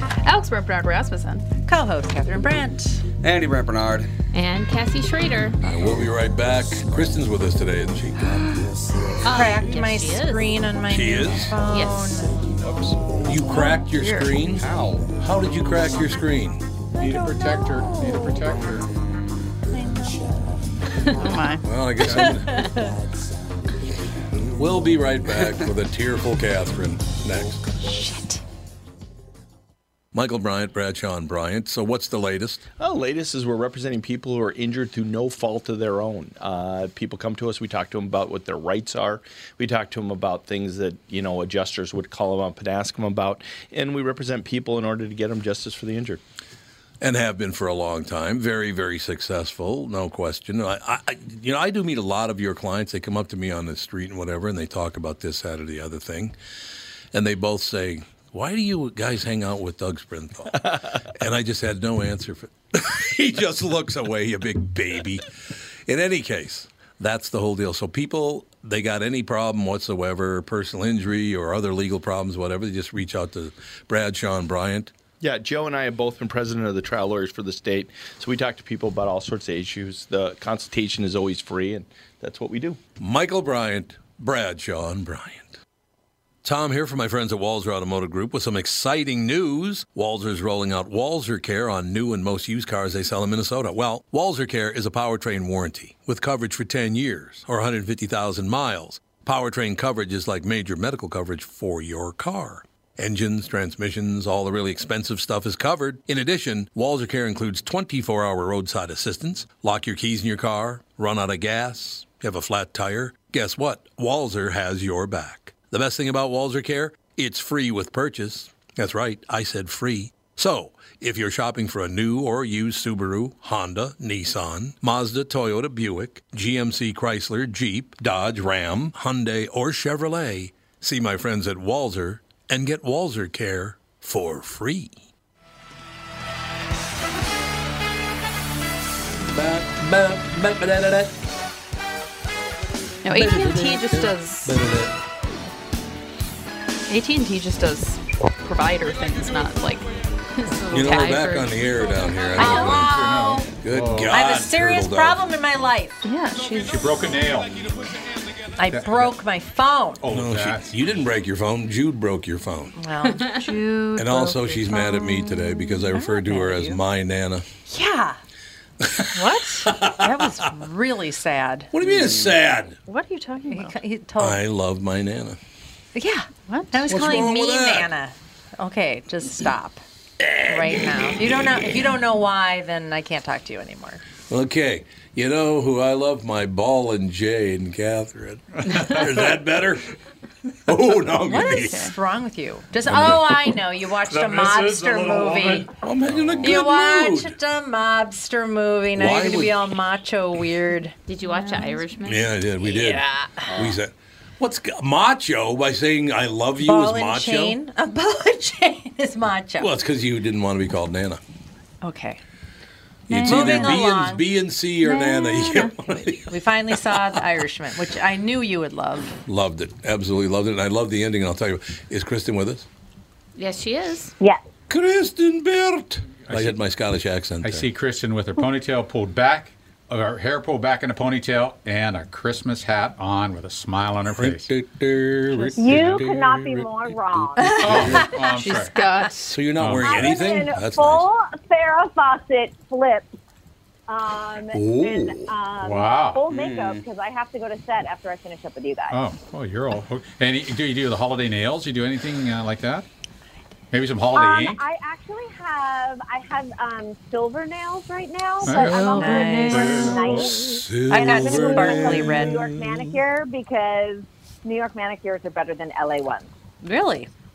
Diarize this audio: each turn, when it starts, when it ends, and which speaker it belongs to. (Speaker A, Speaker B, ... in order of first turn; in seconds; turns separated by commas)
Speaker A: 0.2-1.5, Speaker B: 1.6-3.0, Speaker C: 3.2-4.1, Speaker D: 4.3-5.6, Speaker E: 5.6-8.3, Speaker D: 8.4-8.7, Speaker D: 9.2-10.5, Speaker B: 9.3-12.6, Speaker E: 10.9-11.6, Speaker D: 11.7-12.2, Speaker C: 12.6-13.0, Speaker E: 13.2-16.6, Speaker A: 13.4-14.4, Speaker C: 14.6-15.1, Speaker F: 17.0-18.9, Speaker A: 21.1-21.7, Speaker E: 21.6-22.9, Speaker F: 22.0-22.4, Speaker B: 22.5-22.9, Speaker E: 24.3-27.6, Speaker B: 27.9-28.3, Speaker E: 30.1-32.6, Speaker G: 32.8-46.2, Speaker E: 47.0-56.4, Speaker E: 57.1-74.9, Speaker G: 75.2-82.8, Speaker E: 83.0-85.6, Speaker E: 86.4-134.9, Speaker E: 139.3-141.2, Speaker A: 143.0-144.6, Speaker E: 143.1-144.9, Speaker A: 146.9-149.9, Speaker A: 150.6-151.9, Speaker E: 150.7-155.3, Speaker B: 152.3-153.5, Speaker F: 152.3-154.1, Speaker B: 154.1-156.1, Speaker A: 156.0-156.8, Speaker F: 156.7-157.7, Speaker B: 158.6-160.0, Speaker F: 158.7-159.2, Speaker F: 160.0-160.7, Speaker E: 160.1-162.8, Speaker B: 162.8-165.1, Speaker E: 163.9-167.5, Speaker B: 165.9-166.8, Speaker B: 167.7-168.2, Speaker E: 168.8-170.4, Speaker A: 169.2-169.7, Speaker B: 170.0-171.7, Speaker E: 171.7-172.8, Speaker C: 171.9-172.4, Speaker A: 172.9-173.8, Speaker B: 173.5-174.4, Speaker E: 174.2-175.4, Speaker B: 175.9-179.8, Speaker A: 176.4-176.9, Speaker E: 176.9-177.9, Speaker E: 180.2-181.8, Speaker B: 180.5-184.0, Speaker E: 184.3-189.9, Speaker E: 190.7-191.9, Speaker A: 191.3-191.9, Speaker B: 191.3-195.7, Speaker E: 192.9-193.5, Speaker F: 194.1-195.7, Speaker E: 195.7-197.3, Speaker B: 196.4-201.0, Speaker E: 199.0-199.6, Speaker D: 201.1-202.3, Speaker A: 201.3-201.8, Speaker E: 202.0-207.6, Speaker B: 202.6-203.5, Speaker C: 203.5-203.8, Speaker B: 206.6-209.7, Speaker E: 209.6-211.2, Speaker B: 211.8-212.2, Speaker E: 213.1-217.2, Speaker A: 213.1-213.8, Speaker B: 213.2-214.2, Speaker A: 214.8-215.9, Speaker B: 216.3-219.2, Speaker E: 219.3-222.7, Speaker D: 223.4-224.1, Speaker E: 224.7-227.7, Speaker F: 226.3-226.6, Speaker F: 227.4-234.5, Speaker E: 234.2-238.2, Speaker H: 235.6-237.9, Speaker F: 235.7-236.0, Speaker B: 237.4-239.0, Speaker F: 237.6-238.7, Speaker A: 238.5-239.4, Speaker E: 239.3-241.1, Speaker F: 239.6-240.1, Speaker H: 239.8-243.1, Speaker H: 243.9-249.0, Speaker E: 244.5-245.3, Speaker F: 245.6-246.2, Speaker C: 246.3-246.8, Speaker F: 248.9-252.9, Speaker F: 253.7-254.6, Speaker H: 254.1-266.3, Speaker F: 258.4-258.8, Speaker E: 258.5-263.0, Speaker B: 258.9-259.9, Speaker A: 259.2-259.8, Speaker F: 259.5-260.5, Speaker B: 260.9-262.4, Speaker B: 266.6-267.1